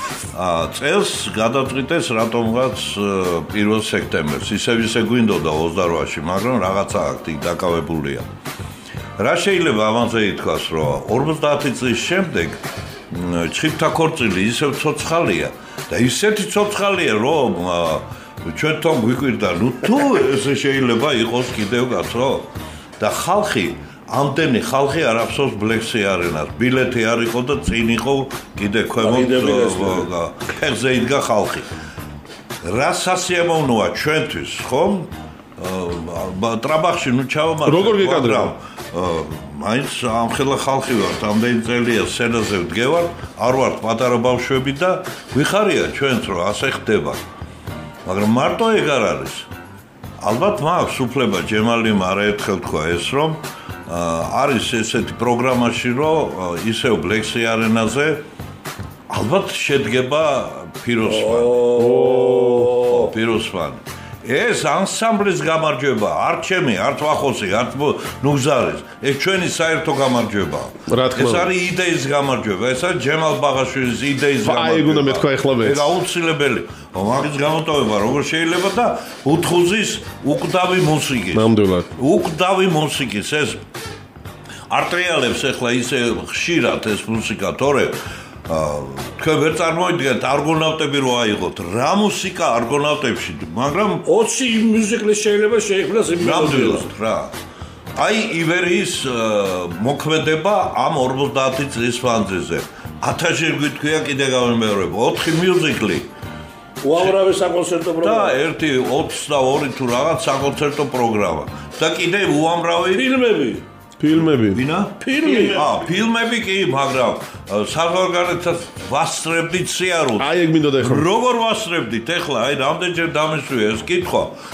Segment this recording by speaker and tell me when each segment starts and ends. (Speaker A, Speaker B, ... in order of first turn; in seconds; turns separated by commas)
Speaker A: 0.3-8.2, Speaker A: 9.2-12.6, Speaker A: 13.1-22.5, Speaker A: 23.0-31.7, Speaker B: 29.0-30.1, Speaker A: 32.6-47.2, Speaker C: 37.6-38.5, Speaker A: 48.0-49.5, Speaker A: 50.2-58.2, Speaker A: 59.1-61.6, Speaker B: 61.0-63.1, Speaker C: 61.8-62.8, Speaker A: 62.8-83.6, Speaker C: 70.9-71.5, Speaker C: 74.4-75.9, Speaker C: 81.3-81.9, Speaker A: 84.7-88.0, Speaker A: 88.5-94.0, Speaker B: 94.0-96.9, Speaker A: 96.2-97.3, Speaker A: 98.0-106.1, Speaker B: 106.8-108.4, Speaker A: 108.0-113.1, Speaker B: 112.9-113.6, Speaker C: 114.0-114.6, Speaker A: 114.4-124.3, Speaker B: 115.0-115.7, Speaker C: 120.2-121.1